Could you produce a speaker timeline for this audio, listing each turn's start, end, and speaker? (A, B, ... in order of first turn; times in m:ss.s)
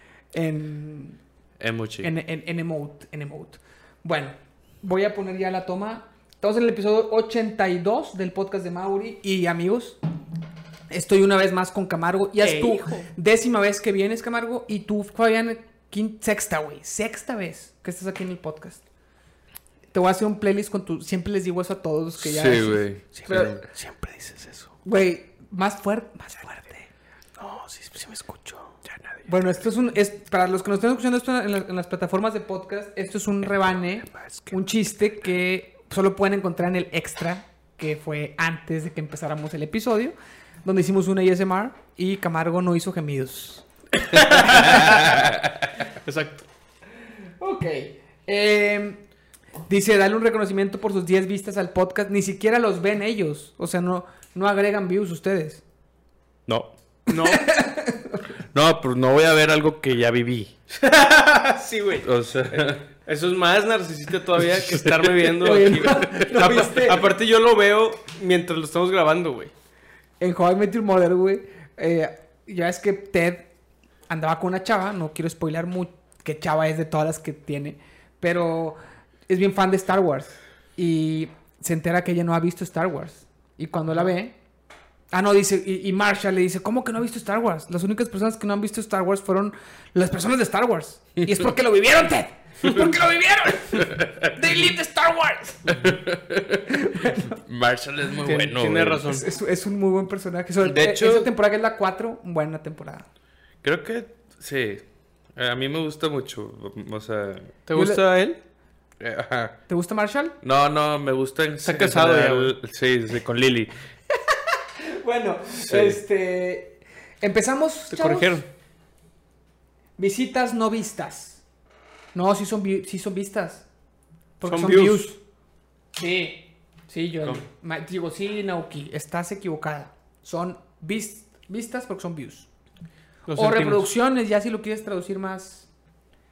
0:00.3-0:01.2 A
0:01.6-0:02.1 B
0:02.0-0:10.0 A
0:10.9-0:18.8 A
0:12.4-0:13.1 C
0:19.9-0:23.5 A
0:22.2-0:23.6 B
0:23.1-0:24.8 C
0:24.8-0:26.9 A
0:27.4-0:29.3 C
0:29.3-0:45.1 A
0:44.0-0:46.5 C
0:44.6-0:45.4 B
0:47.4-0:49.0 A
0:49.7-0:55.6 A
0:57.1-0:57.6 C
0:57.1-0:58.2 A
0:58.5-1:00.6 B
1:00.8-1:02.1 C
1:02.0-1:02.9 B
1:03.0-1:09.5 C
1:04.6-1:05.1 B
1:05.4-1:07.0 A
1:10.2-1:13.5 A
1:14.1-1:18.8 A
1:19.3-1:24.4 A
1:25.1-1:36.0 A
1:33.8-1:34.2 B
1:35.7-1:39.1 B
1:36.7-1:37.4 A
1:38.2-1:39.3 C
1:39.0-1:43.1 A
1:40.6-1:41.3 B
1:43.6-1:44.8 B
1:45.4-1:47.5 B
1:47.7-1:48.4 C
1:47.7-1:48.0 A
1:49.0-1:49.6 B
1:49.7-1:50.4 A
1:50.4-1:53.7 B
1:51.6-1:52.6 C
1:54.8-1:58.4 A
1:55.6-1:56.0 B
1:57.9-1:58.5 C
2:00.0-2:01.4 A
2:02.1-2:03.7 A
2:04.4-2:05.2 A
2:04.4-2:05.1 C
2:06.0-2:12.5 A
2:13.3-2:13.9 C
2:13.3-2:15.7 A